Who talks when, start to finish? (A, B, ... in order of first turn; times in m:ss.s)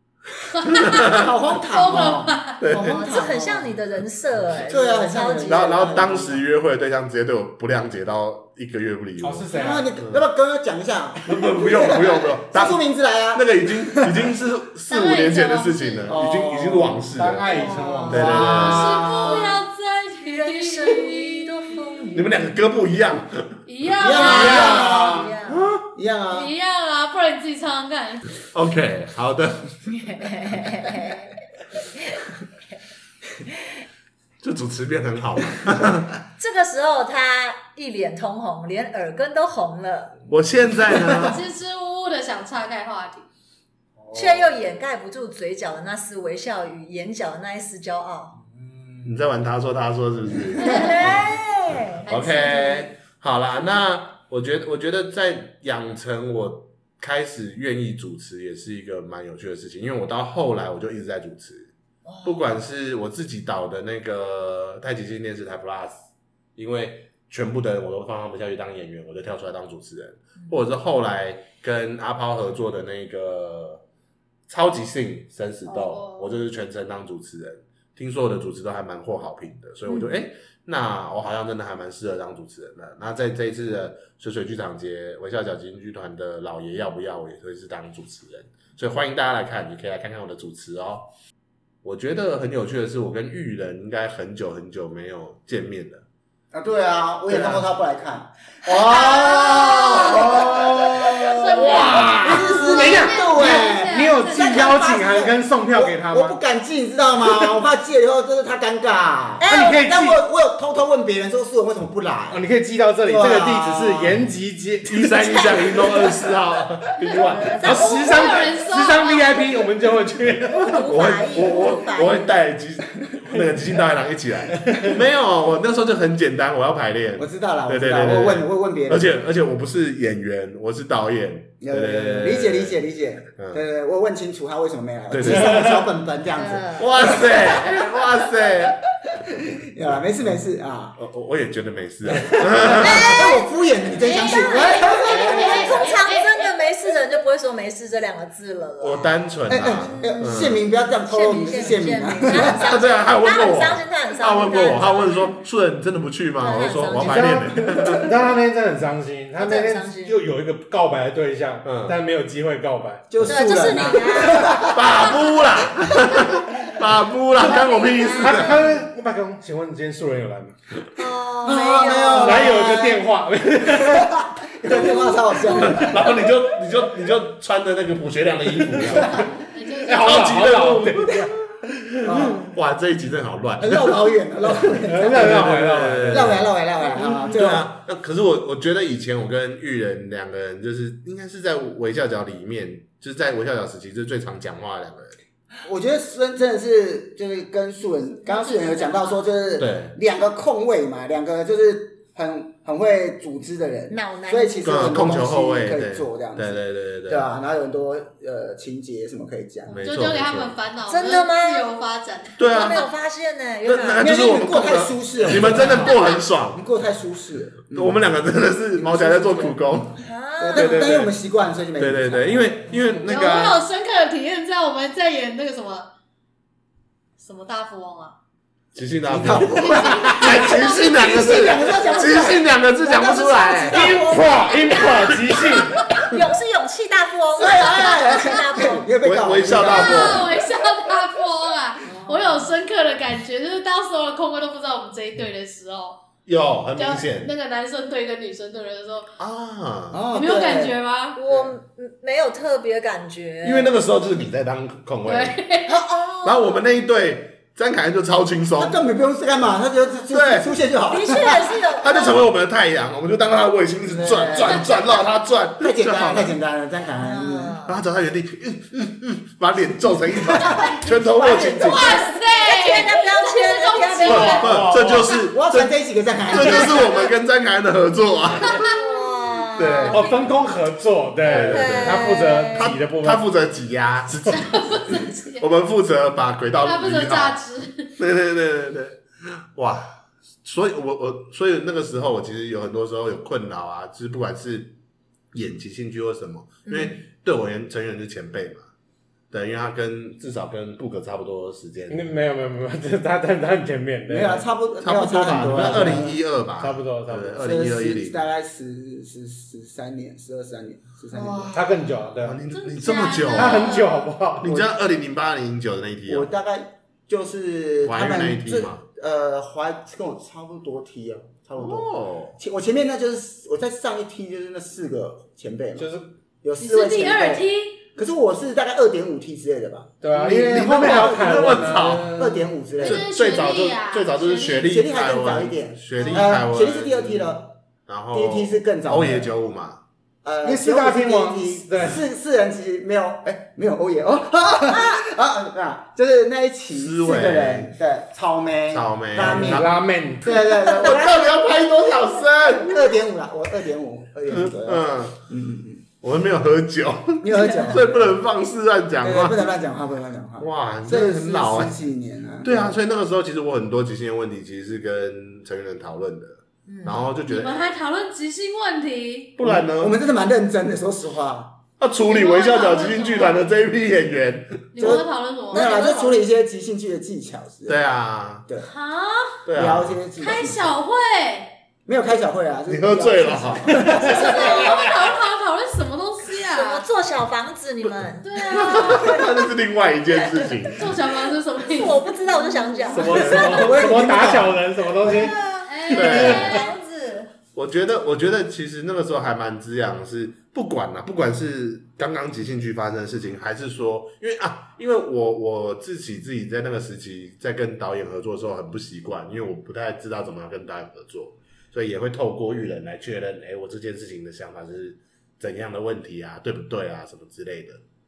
0:00.5-0:02.6 A
0:00.6-0:01.2 B
0:00.9-0:03.8 C
0:02.6-0:03.0 B
0:02.7-0:05.9 D
0:04.6-0:06.5 C
0:05.4-0:10.2 B
0:09.2-0:10.0 E
0:09.5-0:14.3 C
0:11.2-0:12.8 B
0:13.3-0:17.6 B
0:14.9-0:16.2 A
0:16.1-0:19.4 C
0:17.1-0:18.4 E
0:17.5-0:19.6 D
0:18.1-0:19.3 B
0:18.4-0:21.7 A
0:20.2-0:22.3 D
0:22.1-0:23.6 B
0:23.6-0:25.1 A
0:24.0-0:26.5 C
0:24.2-0:24.7 B
0:24.2-0:25.0 E
0:24.5-0:25.7 D
0:25.5-0:25.8 B
0:26.3-0:28.3 A
0:28.5-0:30.1 B
0:29.9-0:31.3 D
0:32.0-0:32.2 D
0:34.4-0:36.2 B
0:36.4-0:40.2 D
0:40.3-0:41.4 B
0:41.2-0:43.3 A
0:44.0-0:44.5 C
0:44.1-0:48.4 D
0:48.4-0:49.2 C
0:49.0-0:51.4 B
0:50.6-0:52.1 D
0:50.6-0:51.4 A
0:52.0-0:52.9 A
0:52.0-1:01.7 B
1:02.0-1:02.4 D
1:02.2-1:06.0 B
1:06.6-1:13.8 B
1:14.5-1:31.1 B
1:15.6-1:16.4 A
1:31.8-1:36.0 B
1:36.5-1:52.4 C
1:37.3-1:37.6 B
1:38.7-1:40.6 A
1:39.8-1:40.5 B
1:41.2-1:44.7 A
1:41.3-1:42.6 B
1:42.5-1:46.4 E
1:49.4-1:49.8 D
1:49.4-1:50.2 E
1:52.3-1:55.9 E
1:53.0-1:54.2 C
1:54.8-1:57.6 B
1:57.2-1:58.4 D
1:57.6-2:00.8 E
1:57.7-1:59.6 A
2:00.5-2:02.4 D
2:00.7-2:12.8 B
2:04.6-2:05.0 E
2:07.2-2:09.1 C
2:11.6-2:17.9 C
2:13.4-2:13.6 B
2:15.1-2:15.6 B
2:15.2-2:15.8 E
2:16.4-2:16.9 D
2:16.8-2:18.8 B
2:19.0-2:21.0 C
2:21.0-2:23.2 B
2:22.6-2:25.8 C
2:22.8-2:23.5 D
2:24.0-2:26.6 A
2:24.0-2:35.3 D
2:28.8-2:30.6 B
2:29.5-2:32.6 C
2:32.3-2:38.1 B
2:36.4-2:37.4 D
2:36.9-2:43.1 E
2:39.4-2:40.2 D
2:41.6-2:42.0 B
2:43.1-2:44.8 C
2:43.2-2:44.7 D
2:44.7-2:48.8 B
2:47.4-2:48.7 D
2:48.2-2:50.6 E
2:51.0-2:52.6 D
2:51.4-2:53.0 C
2:52.2-2:54.1 E
2:53.6-2:56.0 C
2:54.7-2:56.0 D
2:55.5-2:59.3 B
2:58.9-2:59.2 C
2:59.5-3:00.6 A
2:59.8-3:02.4 E
3:00.0-3:01.5 B
3:02.0-3:02.5 C
3:02.4-3:04.0 B
3:03.6-3:07.7 C
3:04.6-3:15.1 B
3:04.8-3:06.4 E
3:15.6-3:29.8 C
3:18.2-3:19.2 A
3:19.6-3:19.9 B
3:23.9-3:25.0 D
3:24.6-3:27.2 B
3:29.7-3:30.6 B
3:29.8-3:32.8 A
3:30.9-3:31.6 D
3:32.4-3:32.9 B
3:32.4-3:34.1 D
3:33.6-3:36.6 B
3:34.0-3:38.0 C
3:37.7-3:40.0 B
3:38.7-3:39.6 C
3:40.0-3:40.8 D
3:40.4-3:42.7 C
3:40.5-3:41.1 B
3:41.8-3:43.6 B
3:43.0-3:45.9 A
3:47.2-3:48.2 A
3:48.7-3:53.8 B
3:49.1-3:55.7 C
3:49.4-3:52.1 A
3:53.7-3:55.8 E
3:55.9-3:58.9 D
3:57.3-4:00.4 C
3:59.0-4:00.3 B
3:59.6-4:06.0 A
4:01.8-4:02.4 D
4:06.2-4:07.3 B
4:06.8-4:09.2 A
4:09.2-4:10.0 B
4:09.9-4:10.8 C
4:10.1-4:11.2 A
4:11.1-4:13.8 D
4:13.4-4:15.4 B
4:15.0-4:15.8 A
4:15.7-4:16.3 D
4:16.2-4:18.8 B
4:18.6-4:21.6 C
4:20.1-4:20.5 B
4:20.9-4:22.3 D
4:21.8-4:26.3 B
4:23.8-4:24.7 C
4:25.6-4:27.6 C
4:26.9-4:27.8 D
4:27.6-4:32.0 B
4:30.3-4:32.0 C
4:31.4-4:34.5 D
4:31.6-4:34.5 A
4:34.1-4:35.7 B
4:34.2-4:35.2 E
4:35.3-4:37.0 C
4:36.3-4:38.6 B
4:36.3-4:36.8 E
4:38.5-4:40.1 D
4:38.5-4:38.8 A
4:39.6-4:40.1 B
4:39.9-4:43.2 E
4:41.2-4:47.4 B
4:41.4-4:42.7 D
4:44.3-4:45.4 A
4:46.6-4:47.9 A
4:48.0-4:54.7 B
4:55.3-4:58.6 B
4:56.6-4:57.0 D
4:59.3-5:02.1 B
5:01.9-5:04.5 E
5:04.1-5:06.2 C
5:04.8-5:08.2 B
5:05.5-5:07.4 E
5:07.4-5:11.6 C
5:11.2-5:11.6 B
5:11.5-5:12.4 E
5:12.2-5:13.8 B
5:12.5-5:14.1 A
5:13.2-5:14.6 E
5:14.4-5:16.3 B
5:14.4-5:14.7 C
5:16.0-5:25.9 C
5:17.8-5:18.8 B
5:21.6-5:22.4 B
5:25.8-5:26.1 E
5:26.4-5:33.1 C
5:26.6-5:27.8 A
5:30.0-5:32.4 E
5:30.2-5:32.2 B
5:32.8-5:34.7 A
5:32.8-5:39.8 B
5:34.5-5:37.6 C
5:36.0-5:36.3 A
5:38.1-5:39.3 C
5:40.2-5:49.7 C
5:40.4-5:42.0 E
5:46.7-5:47.7 B
5:48.7-5:49.8 B
5:49.2-5:50.4 E
5:50.2-5:51.4 C
5:50.5-5:52.8 B
5:52.5-5:55.8 C
5:54.3-5:55.2 B
5:56.0-5:59.5 B
5:57.2-5:58.2 C
5:59.0-6:02.8 C
6:00.4-6:01.7 B
6:02.4-6:07.6 B
6:06.6-6:07.0 D
6:07.3-6:09.3 A
6:09.4-6:10.0 B
6:09.4-6:11.6 C
6:11.8-6:15.0 B
6:12.0-6:13.5 A
6:14.7-6:15.7 A
6:14.8-6:17.8 C
6:15.5-6:16.2 D
6:17.7-6:18.4 B
6:18.6-6:19.4 A
6:19.4-6:20.0 B
6:19.5-6:20.8 C
6:20.2-6:21.5 A
6:21.8-6:24.6 C
6:22.7-6:24.5 B
6:24.0-6:26.8 A
6:24.0-6:24.9 D
6:26.5-6:29.5 D
6:28.2-6:29.2 A
6:28.5-6:31.0 B
6:30.7-6:33.0 A
6:31.6-6:33.7 D
6:32.9-6:36.6 E
6:32.9-6:34.7 C
6:33.0-6:33.7 B
6:35.0-6:37.3 D
6:35.6-6:36.7 A
6:35.9-6:36.6 B
6:37.5-6:57.8 B